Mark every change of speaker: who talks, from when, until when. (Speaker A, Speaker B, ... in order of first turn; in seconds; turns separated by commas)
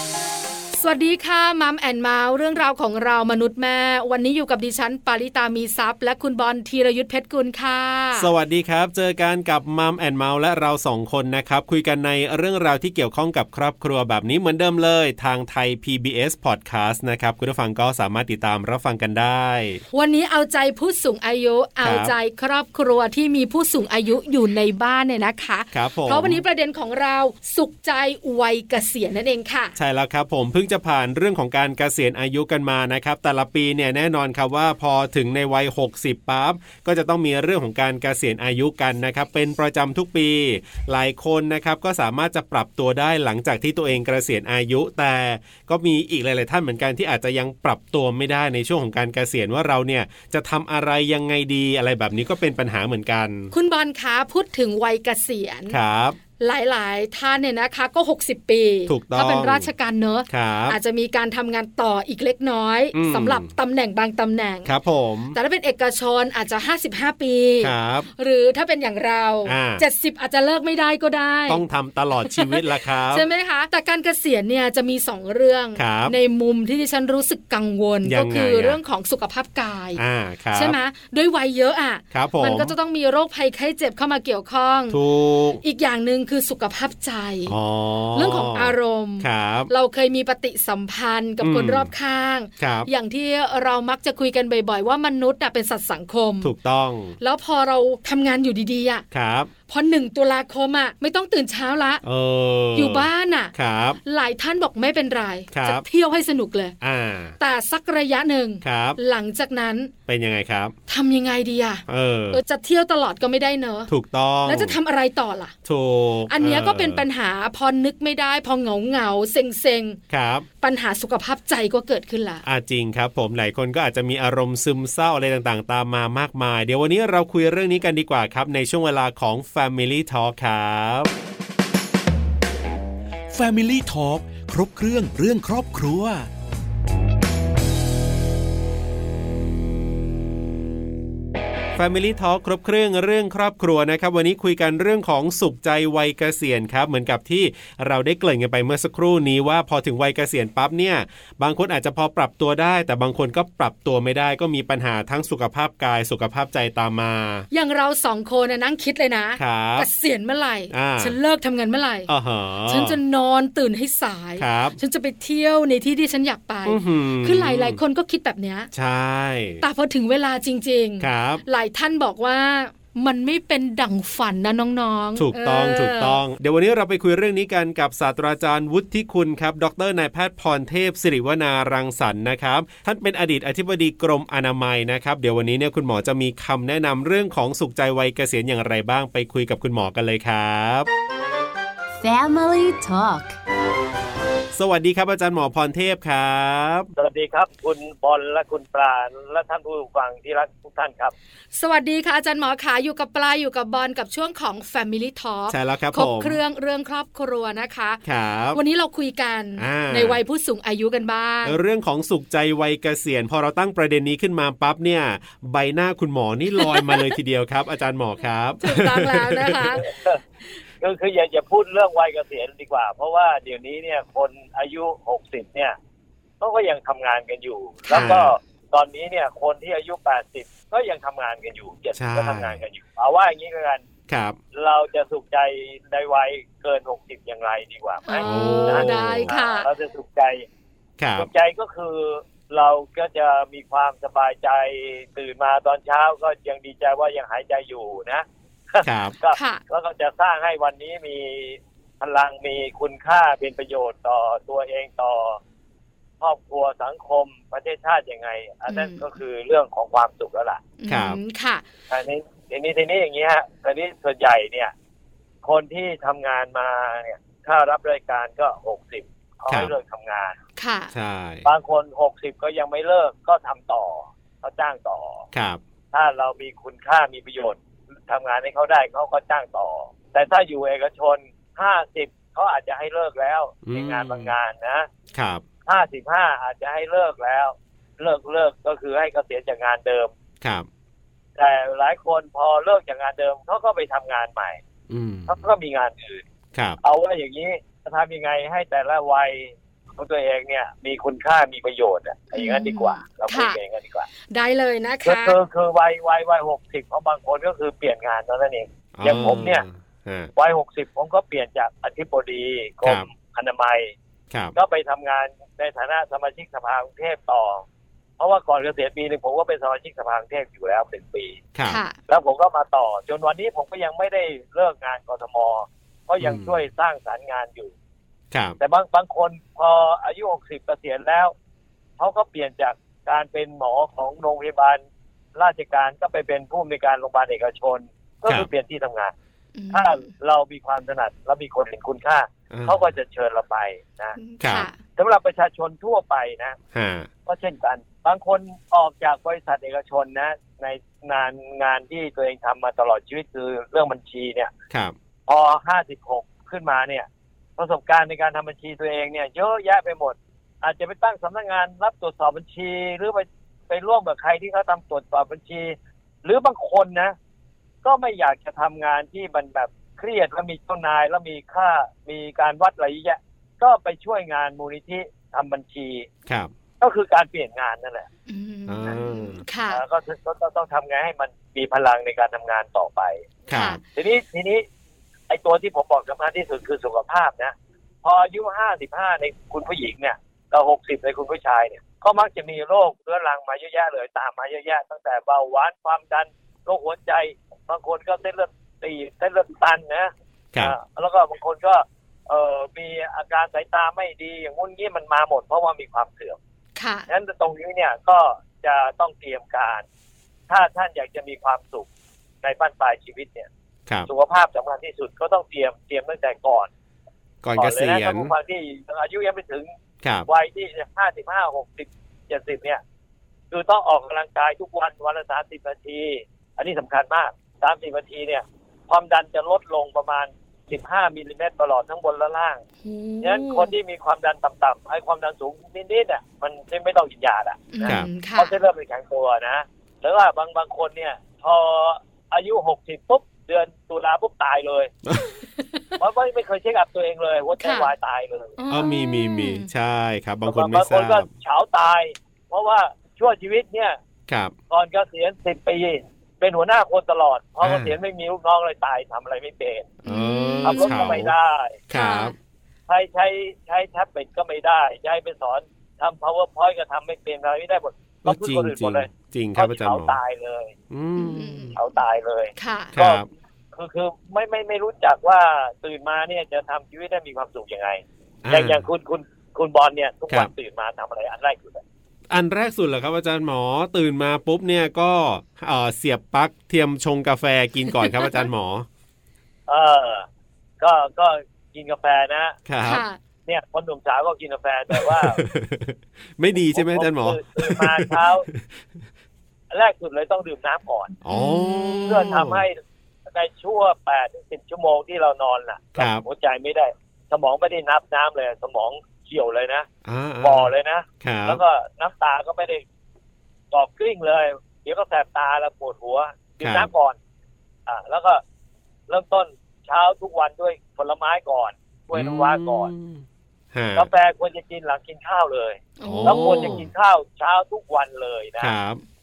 Speaker A: 0.8-8.3, Speaker B: 8.2-19.8, Speaker A: 19.9-29.8, Speaker B: 21.8-22.1, Speaker B: 25.7-26.4, Speaker B: 29.8-53.5, Speaker A: 53.5-55.8, Speaker B: 55.7-56.2, Speaker A: 56.4-64.7, Speaker B: 58.9-59.7, Speaker B: 60.3-60.8, Speaker B: 62.9-63.5, Speaker B: 64.7-65.4, Speaker A: 65.3-71.6, Speaker B: 67.6-68.1, Speaker B: 69.5-69.8, Speaker B: 71.5-73.3, Speaker A: 72.2-80.0, Speaker B: 75.8-76.2, Speaker B: 78.0-78.8, Speaker B: 80.0-80.8, Speaker A: 80.5-85.0, Speaker B: 82.1-82.8, Speaker B: 84.9-85.6, Speaker A: 85.6-87.6, Speaker B: 87.5-89.7, Speaker A: 88.2-96.5, Speaker B: 91.4-91.9, Speaker B: 92.6-92.9, Speaker B: 96.4-97.2, Speaker A: 97.2-99.0, Speaker B: 99.1-99.5, Speaker A: 99.7-102.0, Speaker B: 102.0-104.0, Speaker A: 102.7-103.5, Speaker A: 104.0-106.8, Speaker B: 105.5-105.8, Speaker B: 106.8-107.4, Speaker A: 107.4-109.9, Speaker B: 108.6-109.0, Speaker B: 110.1-110.8, Speaker A: 110.9-113.9, Speaker B: 111.9-112.4, Speaker B: 113.9-114.8, Speaker A: 114.5-115.5, Speaker B: 115.7-117.0, Speaker A: 116.3-120.0, Speaker B: 120.1-120.5, Speaker A: 120.6-122.4, Speaker B: 122.4-131.1, Speaker C: 133.3-136.2, Speaker D: 134.5-136.0, Speaker B: 141.8-157.5, Speaker A: 157.5-162.1, Speaker B: 159.4-159.9, Speaker B: 160.7-161.2, Speaker B: 162.1-163.0, Speaker A: 162.7-168.7, Speaker B: 164.4-164.8, Speaker B: 166.7-167.8, Speaker B: 168.7-169.6, Speaker A: 169.6-176.2, Speaker B: 171.0-171.4, Speaker B: 175.2-190.9, Speaker D: 192.0-193.4, Speaker B: 194.5-196.9, Speaker E: 197.0-201.1, Speaker A: 201.5-208.0, Speaker B: 205.5-206.4, Speaker B: 208.1-208.6, Speaker A: 208.5-211.6, Speaker B: 209.6-210.2, Speaker B: 211.4-219.8, Speaker A: 216.6-217.1, Speaker A: 218.6-219.8, Speaker E: 219.8-220.2, Speaker E: 220.8-225.8, Speaker E: 226.4-233.8, Speaker A: 227.9-228.2, Speaker B: 227.9-228.3, Speaker B: 231.9-232.6, Speaker B: 234.1-234.4, Speaker E: 234.5-240.5, Speaker A: 238.1-239.7, Speaker B: 238.2-239.3, Speaker B: 241.0-241.3, Speaker E: 241.2-255.4, Speaker B: 248.8-249.2, Speaker A: 249.3-249.6, Speaker E: 256.2-260.6, Speaker A: 258.7-259.0, Speaker A: 260.8-261.6, Speaker B: 260.9-261.2, Speaker E: 261.9-264.7, Speaker E: 265.4-270.4, Speaker A: 270.6-270.9, Speaker B: 270.9-271.4, Speaker E: 271.4-275.2, Speaker B: 275.3-275.6, Speaker E: 275.9-284.9, Speaker B: 283.6-284.3, Speaker B: 285.1-285.4, Speaker E: 285.7-290.1, Speaker B: 290.4-290.7, Speaker E: 291.4-294.6, Speaker B: 294.9-295.4, Speaker E: 295.3-296.2, Speaker E: 296.8-304.1, Speaker A: 302.3-303.6, Speaker A: 304.3-305.4, Speaker E: 305.0-309.6, Speaker B: 309.0-310.3, Speaker E: 310.4-313.9, Speaker E: 314.6-317.6, Speaker E: 318.2-321.4, Speaker B: 321.5-321.8, Speaker A: 321.6-322.0, Speaker E: 322.1-327.7, Speaker B: 326.2-326.6, Speaker B: 328.3-328.6, Speaker E: 328.6-331.3, Speaker E: 332.0-334.8, Speaker E: 335.4-339.1, Speaker A: 339.6-340.1, Speaker E: 339.7-344.2, Speaker B: 342.5-342.9, Speaker A: 344.2-344.8, Speaker B: 344.4-344.7, Speaker E: 344.9-346.6, Speaker B: 346.7-347.1, Speaker E: 347.3-354.5, Speaker E: 355.3-367.1, Speaker E: 367.8-376.1, Speaker E: 376.8-378.1, Speaker A: 378.3-379.8, Speaker B: 378.7-379.4, Speaker E: 379.7-383.3, Speaker A: 383.5-383.8, Speaker B: 383.5-383.8, Speaker E: 384.0-384.6, Speaker E: 385.3-406.4, Speaker A: 406.8-407.1, Speaker E: 407.1-409.9, Speaker E: 410.5-411.9, Speaker E: 412.4-413.5, Speaker E: 414.1-416.7, Speaker B: 417.4-418.3, Speaker E: 417.6-419.7, Speaker B: 420.0-420.3, Speaker E: 420.3-422.8, Speaker E: 423.5-432.6, Speaker A: 432.8-433.7, Speaker E: 433.2-444.9, Speaker A: 437.7-438.5, Speaker A: 445.4-445.9, Speaker E: 446.0-448.6, Speaker A: 447.6-447.9, Speaker A: 448.6-449.7, Speaker B: 448.7-451.3, Speaker E: 450.4-454.0, Speaker B: 454.3-454.5, Speaker E: 454.7-459.9, Speaker B: 457.6-457.9, Speaker B: 460.0-461.3, Speaker A: 460.1-461.2, Speaker E: 460.6-461.8, Speaker B: 461.9-462.4, Speaker A: 461.9-462.3, Speaker E: 462.9-470.7, Speaker B: 468.2-470.2, Speaker B: 470.9-471.8, Speaker A: 471.2-471.8, Speaker E: 471.8-481.8, Speaker A: 472.6-472.9, Speaker B: 472.9-473.3, Speaker B: 478.4-478.8, Speaker B: 482.3-488.9, Speaker E: 489.7-490.3, Speaker E: 490.8-492.6, Speaker B: 492.7-493.0, Speaker A: 492.9-493.2, Speaker E: 493.5-495.4, Speaker B: 494.9-498.8, Speaker E: 496.7-498.5, Speaker E: 499.7-501.1, Speaker B: 501.2-502.6, Speaker A: 501.3-502.4, Speaker E: 502.1-509.9, Speaker B: 506.0-506.2, Speaker B: 510.0-511.6, Speaker E: 510.4-512.8, Speaker E: 513.7-517.2, Speaker B: 516.6-516.9, Speaker E: 517.9-518.4, Speaker E: 519.1-522.9, Speaker B: 522.1-524.1, Speaker E: 524.0-528.7, Speaker A: 526.0-526.8, Speaker B: 526.0-526.9, Speaker B: 528.6-529.0